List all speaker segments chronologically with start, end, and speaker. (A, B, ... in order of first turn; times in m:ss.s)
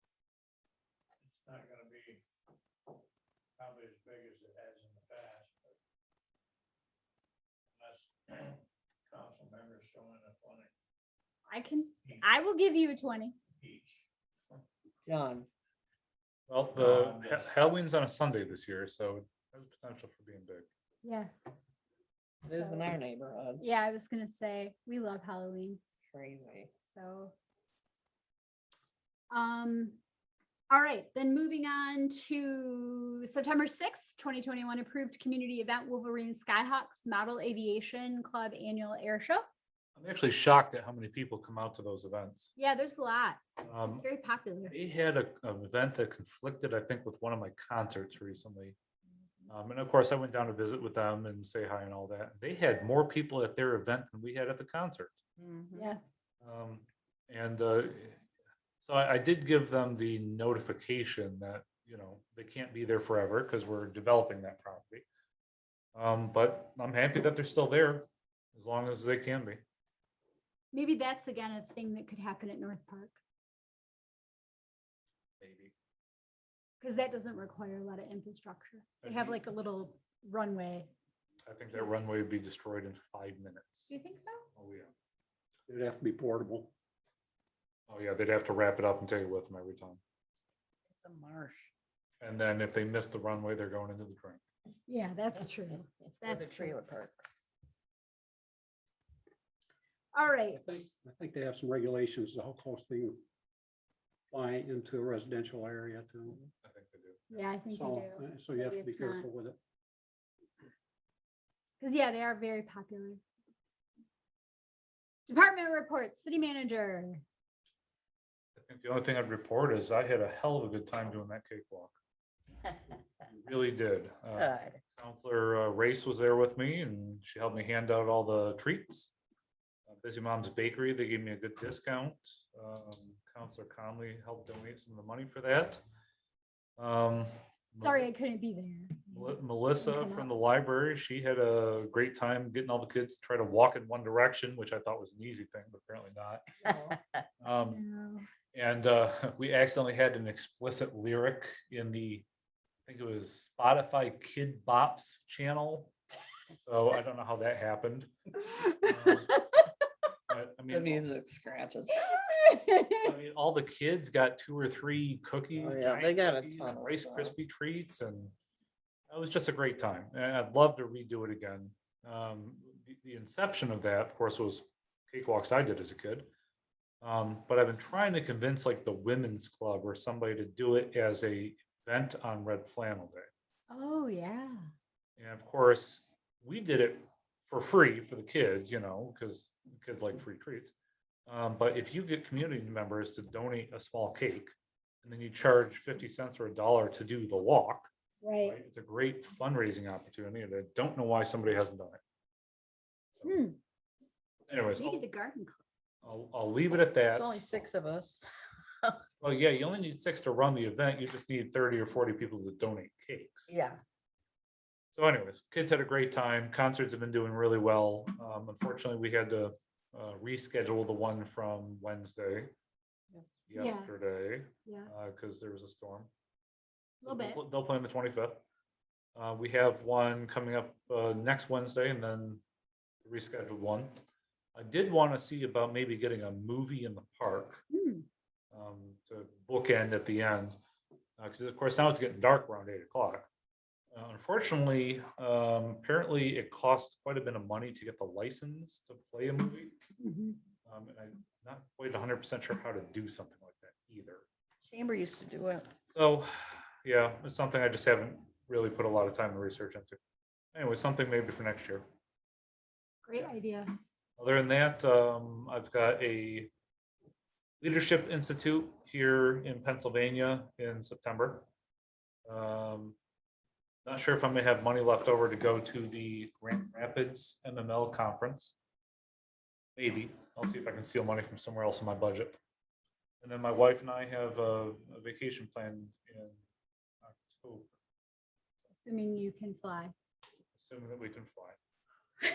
0:01.2-0:02.2 A
0:03.6-0:05.8 A
0:07.7-0:10.7 A
0:11.5-0:13.4 B
0:13.6-0:14.1 A
0:15.0-0:15.5 C
0:16.5-0:20.7 D
0:16.8-0:17.5 A
0:21.0-0:21.3 B
0:22.4-0:23.6 C
0:22.5-0:22.9 B
0:23.6-0:25.8 B
0:26.0-0:26.7 C
0:26.9-0:27.3 B
0:29.3-0:30.0 B
0:30.7-0:39.4 B
0:40.0-0:42.5 D
0:42.6-0:44.8 B
0:43.6-0:44.0 D
0:44.7-0:48.8 D
0:49.5-0:55.2 D
0:55.4-0:55.9 C
0:56.4-0:58.2 D
0:58.8-1:05.1 D
1:06.0-1:09.6 D
1:10.7-1:13.2 B
1:15.4-1:15.7 D
1:16.8-1:20.9 B
1:19.0-1:19.4 D
1:21.5-1:23.9 D
1:21.7-1:22.1 B
1:23.9-1:24.4 B
1:24.6-1:24.9 D
1:25.7-1:26.7 E
1:27.9-1:30.0 D
1:30.9-1:31.7 C
1:32.2-1:34.4 D
1:34.9-1:36.7 B
1:36.2-1:37.4 C
1:40.1-1:40.8 B
1:40.5-1:43.2 E
1:44.3-1:46.4 E
1:46.6-1:47.5 D
1:47.3-1:49.3 B
1:47.7-1:49.6 E
1:51.8-1:53.2 B
1:55.3-1:57.2 B
1:58.6-2:02.0 D
2:03.4-2:09.1 D
2:04.4-2:04.8 C
2:09.9-2:15.8 D
2:16.8-2:18.1 D
2:17.8-2:20.3 B
2:19.1-2:26.5 D
2:27.4-2:27.8 D
2:27.6-2:28.3 B
2:28.5-2:32.2 D
2:32.9-2:35.9 D
2:36.6-2:38.1 D
2:38.8-2:39.3 D
2:40.3-2:41.1 D
2:40.7-2:42.9 C
2:43.0-2:48.3 D
2:45.6-2:47.4 C
2:49.1-2:56.3 D
2:57.0-3:03.3 D
3:03.7-3:04.7 B
3:05.2-3:10.7 D
3:11.3-3:17.9 D
3:18.2-3:18.6 B
3:18.4-3:22.0 D
3:23.2-3:23.4 D
3:23.2-3:23.6 B
3:24.5-3:25.0 D
3:24.7-3:25.6 B
3:26.0-3:27.4 D
3:27.1-3:28.2 C
3:29.2-3:33.5 D
3:33.5-3:33.8 C
3:34.9-3:42.5 D
3:43.5-3:46.1 D
3:43.6-3:43.9 B
3:44.6-3:44.9 B
3:47.0-3:47.4 B
3:47.0-3:48.4 D
3:49.2-3:52.4 D
3:53.0-3:53.9 D
3:54.6-3:57.6 D
3:57.7-3:58.1 B
3:58.5-4:00.5 D
4:01.2-4:03.3 D
4:03.9-4:09.8 D
4:10.0-4:10.4 B
4:10.6-4:14.3 D
4:14.6-4:15.7 C
4:15.9-4:16.3 D
4:16.8-4:20.0 D
4:20.5-4:21.8 D
4:23.0-4:23.7 B
4:24.2-4:26.5 D
4:27.6-4:31.5 D
4:32.3-4:33.0 D
4:33.8-4:38.6 D
4:39.8-4:42.4 D
4:43.2-4:46.4 D
4:47.0-4:47.7 D
4:48.8-4:49.9 B
4:50.6-4:51.6 D